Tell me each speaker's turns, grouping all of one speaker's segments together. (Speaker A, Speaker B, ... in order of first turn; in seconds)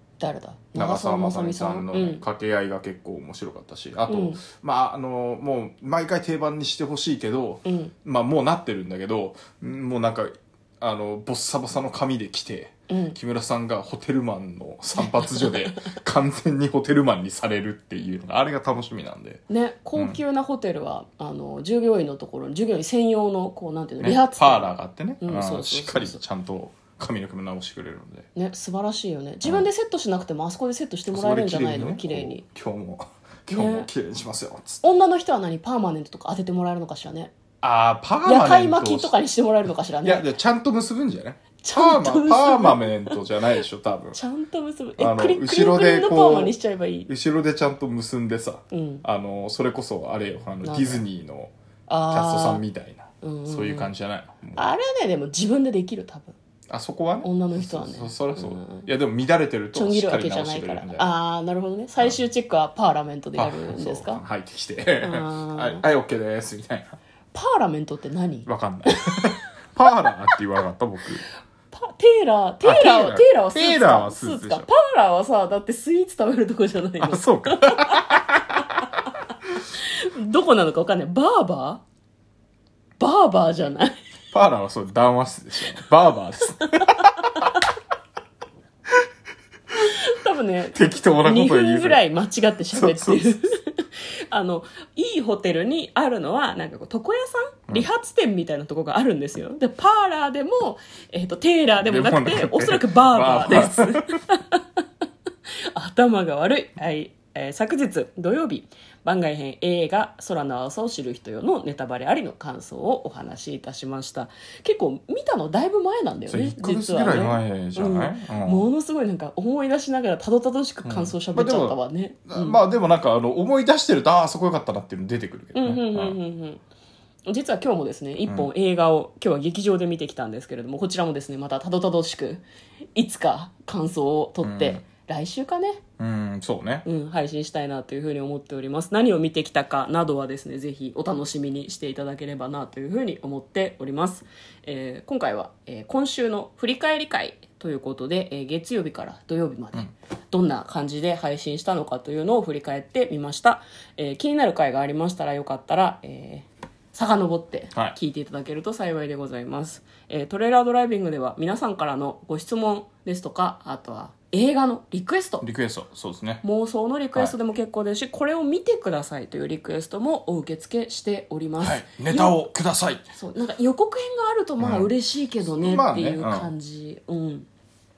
Speaker A: 0.2-2.2, 4.1-4.4, 7.7-7.9, 12.9-13.2, 15.0-15.9, 19.5-26.2, 28.4-32.4, 33.5-33.9, 34.8-37.3, 38.2-40.3, 41.6-43.6, 44.1-47.1, 48.7-49.0, 50.6-51.0, 51.9-52.6, 53.2-53.9, 54.6-56.4, 57.2-58.9, 59.7-64.2, 65.0-65.8, 67.3-69.3, 71.7-78.9, 79.6-81.8, 83.0-84.0, 89.8-104.8, 105.7-122.6, 125.5-126.6, 127.3-132.4, 132.9-135.8, 136.8-165.4, 166.4-172.5, 173.1-177.5
Speaker B: 0.8-19.4, 19.9-20.2, 24.0-28.3, 29.4-29.7, 31.1-34.9, 37.6-39.1, 40.0-44.2, 45.0-46.5, 47.1-51.5, 52.1-54.7, 56.7-61.2, 63.4-67.0, 68.5-71.2, 72.6-74.7, 77.0-78.5, 84.3-87.5, 90.7-92.0, 92.7-93.4, 101.8-104.1, 116.3-118.7, 120.8-126.2, 134.4-134.8, 136.0-136.9, 165.4-166.4, 171.6-173.1, 174.6-174.9, 175.5-176.5